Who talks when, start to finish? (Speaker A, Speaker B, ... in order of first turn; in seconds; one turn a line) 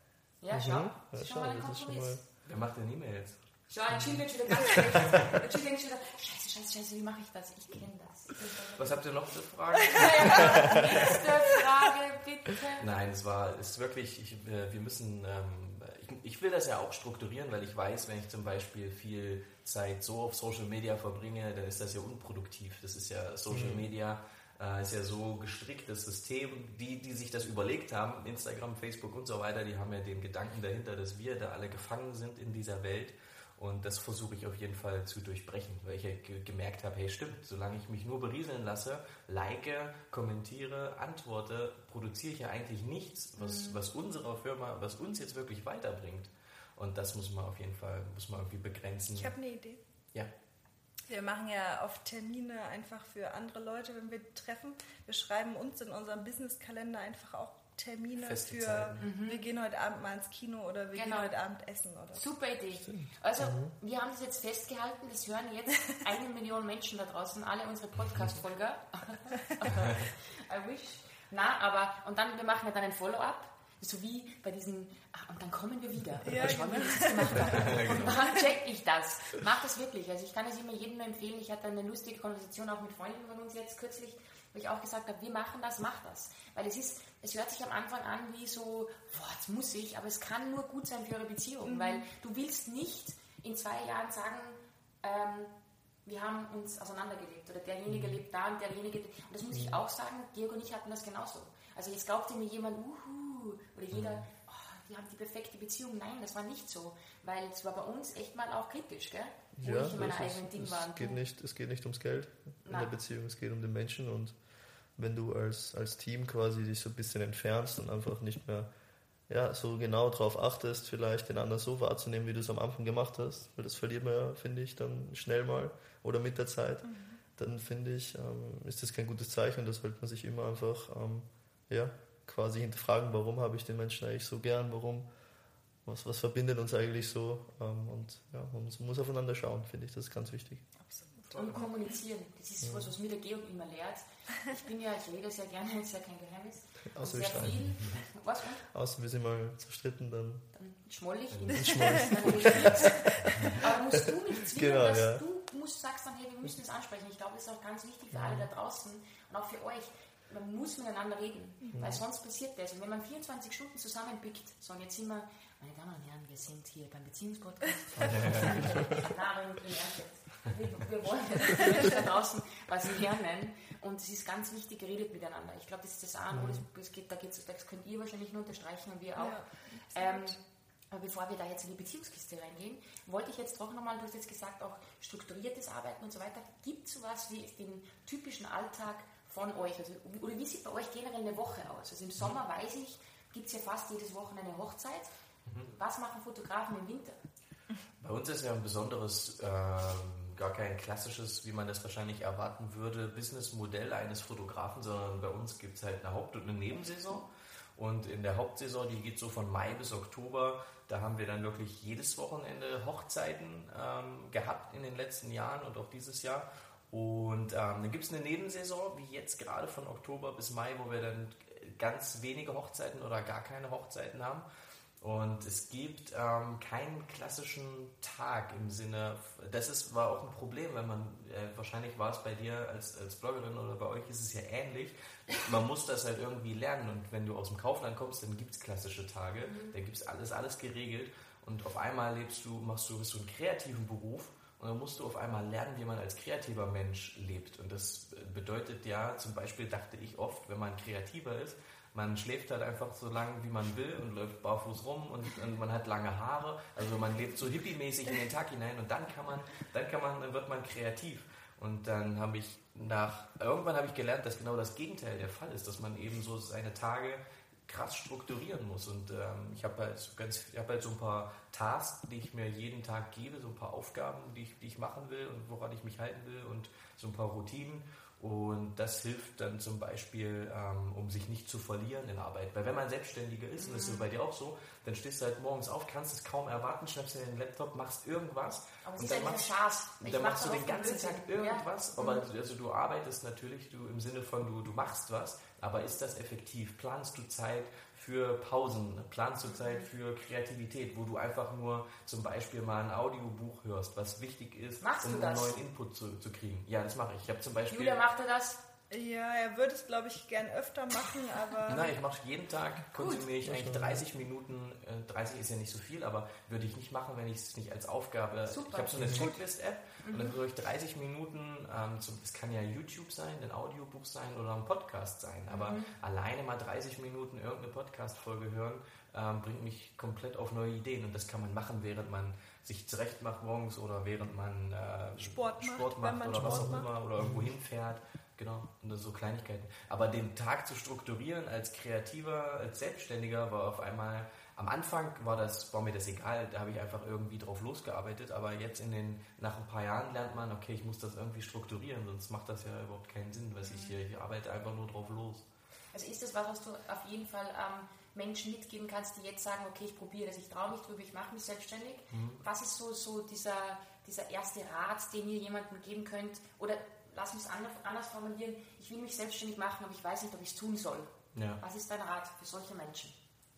Speaker A: 0.4-2.2
Speaker B: 0.5-2.2
Speaker C: 2.5-3.4
Speaker A: 3.7-9.0
Speaker C: 3.9-5.4
Speaker C: 8.7-11.2
Speaker A: 9.9-12.9
Speaker D: 10.0-10.8
Speaker C: 12.8-49.3
Speaker B: 23.5-23.9
Speaker A: 43.4-43.8
Speaker D: 49.1-49.8
Speaker D: 51.1-62.3
Speaker C: 58.2-59.1
Speaker A: 59.0-59.5
Speaker A: 60.9-61.3
Speaker A: 62.1-111.2
Speaker B: 62.9-63.7
Speaker C: 68.0-68.4
Speaker D: 76.2-78.3
Speaker C: 77.4-78.1
Speaker D: 91.6-92.1
Speaker B: 99.5-99.8
Speaker C: 103.9-104.2
Speaker B: 109.6-114.3
Speaker A: 112.6-112.9
Speaker B: 115.0-118.7
Speaker B: 119.3-135.1
Speaker D: 126.8-127.2
Speaker B: 135.8-140.7
Speaker D: 140.8-141.7
Speaker A: 141.3-148.6
Speaker B: 142.6-142.9
Speaker B: 146.9-147.8
Speaker B: 148.7-150.5
Speaker A: 150.5-180.4
Speaker C: 151.3-151.6
Speaker B: 151.5-153.8
Speaker D: 151.7-152.1
Speaker C: 153.2-153.6
Speaker B: 154.3-155.2
Speaker B: 158.1-158.5
Speaker B: 161.7-162.0
Speaker C: 168.0-168.8
Speaker B: 176.3-176.6
Speaker D: 179.2-180.4
Speaker A: 180.9-195.1
Speaker C: 195.4-195.7
Speaker A: 195.7-197.2
Speaker C: 198.0-224.4
Speaker C: 225.0-308.0
Speaker A: 239.4-239.8
Speaker A: 283.6-284.1
Speaker A: 288.8-292.2
Speaker A: 299.5-299.9
Speaker A: 304.8-305.6
Speaker A: 307.7-308.6
Speaker D: 308.9-311.9
Speaker C: 311.7-355.4
Speaker A: 312.9-313.3
Speaker B: 313.4-314.1
Speaker A: 318.5-319.4
Speaker B: 319.0-319.3
Speaker A: 320.0-320.4
Speaker A: 325.5-325.9
Speaker D: 335.2-336.9
Speaker B: 336.4-337.5
Speaker A: 353.6-354.0
Speaker A: 355.9-373.1
Speaker C: 362.1-362.4
Speaker C: 371.4-371.6